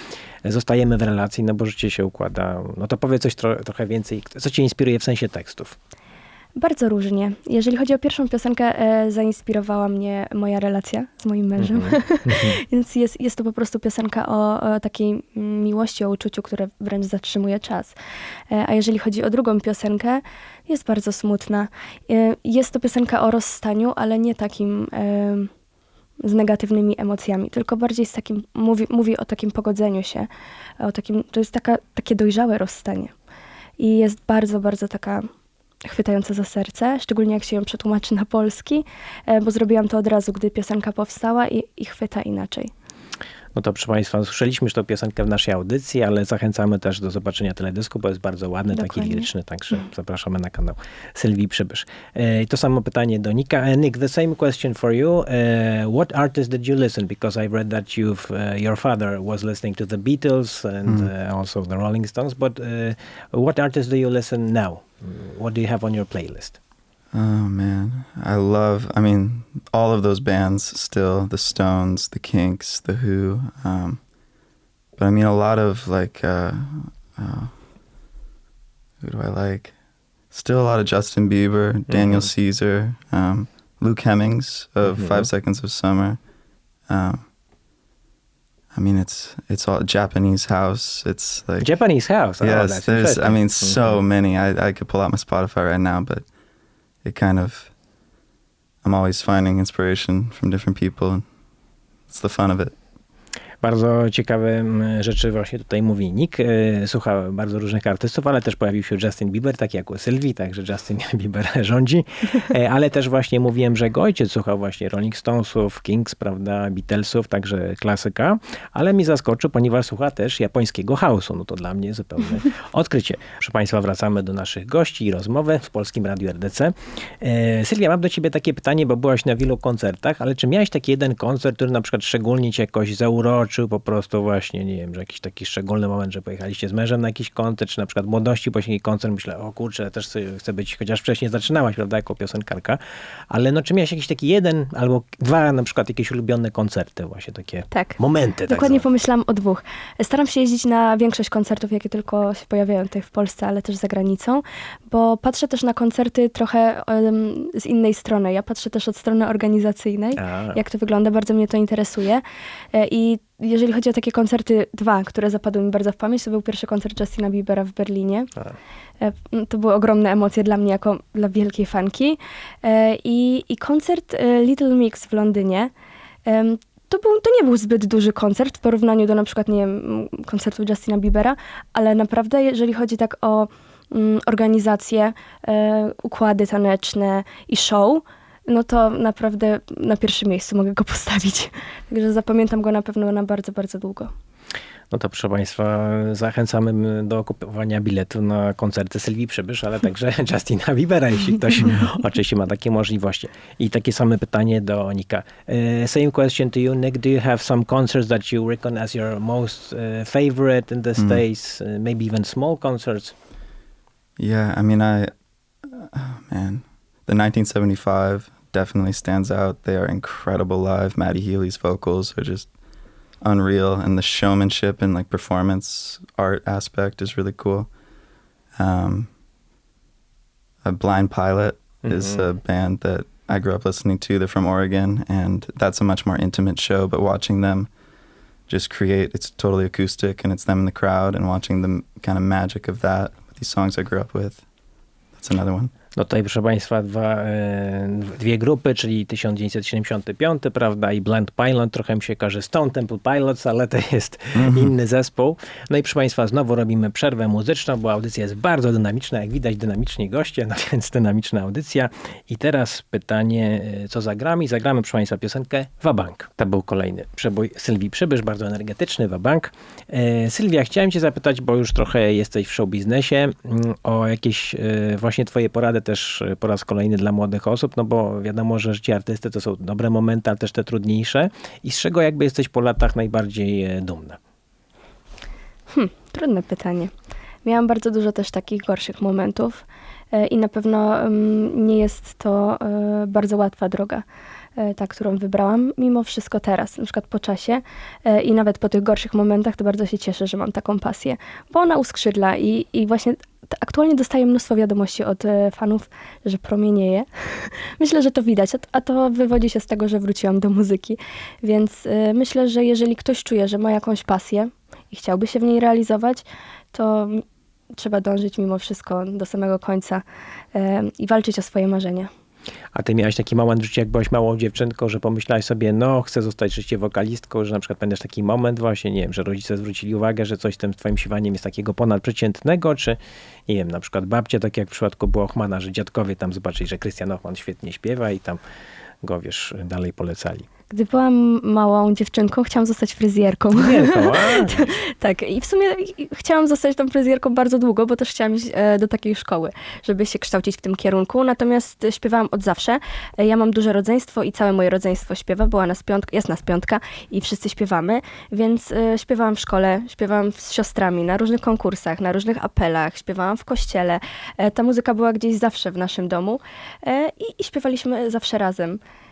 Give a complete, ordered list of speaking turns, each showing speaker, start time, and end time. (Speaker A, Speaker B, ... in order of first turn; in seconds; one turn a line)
Speaker A: 0.4-5.8
Speaker B: 6.5-17.9
Speaker A: 11.6-12.6
Speaker B: 18.5-25.5
Speaker B: 26.2-30.3
Speaker B: 30.8-33.1
Speaker B: 33.8-35.3
Speaker B: 35.8-42.7
Speaker A: 43.5-66.6
Speaker B: 48.7-49.3
Speaker C: 60.9-61.1
Speaker C: 67.1-74.0
Speaker C: 75.0-77.5
Speaker C: 79.0-79.7
Speaker C: 80.3-86.2
Speaker A: 81.9-82.3
Speaker A: 84.8-85.3
Speaker C: 86.9-87.3
Speaker C: 88.7-91.7
Speaker A: 91.6-94.0
Speaker C: 92.4-96.3
Speaker C: 97.0-97.7
Speaker C: 98.8-101.2
Speaker C: 102.1-102.7
Speaker A: 103.6-142.8
Speaker A: 143.3-148.8
Speaker B: 147.7-168.3
Speaker A: 160.2-160.6
Speaker B: 169.0-175.7
Speaker B: 176.2-194.1
Speaker A: 194.9-213.1
Speaker C: 211.0-211.2
Speaker C: 214.2-215.1
Speaker C: 215.6-222.5
Speaker C: 223.2-227.7
Speaker C: 228.6-229.1
Speaker C: 230.6-237.7
Speaker A: 231.8-232.2
Speaker C: 238.5-244.4
Speaker C: 245.1-245.7
Speaker A: 245.9-284.2
Speaker C: 254.3-254.7
Speaker B: 285.7-286.9
Speaker B: 287.4-294.0
Speaker B: 294.6-322.1
Speaker A: 322.7-333.0
Speaker A: 333.5-338.4
Speaker A: 339.0-340.4
Speaker B: 340.7-368.8
Speaker A: 343.6-344.7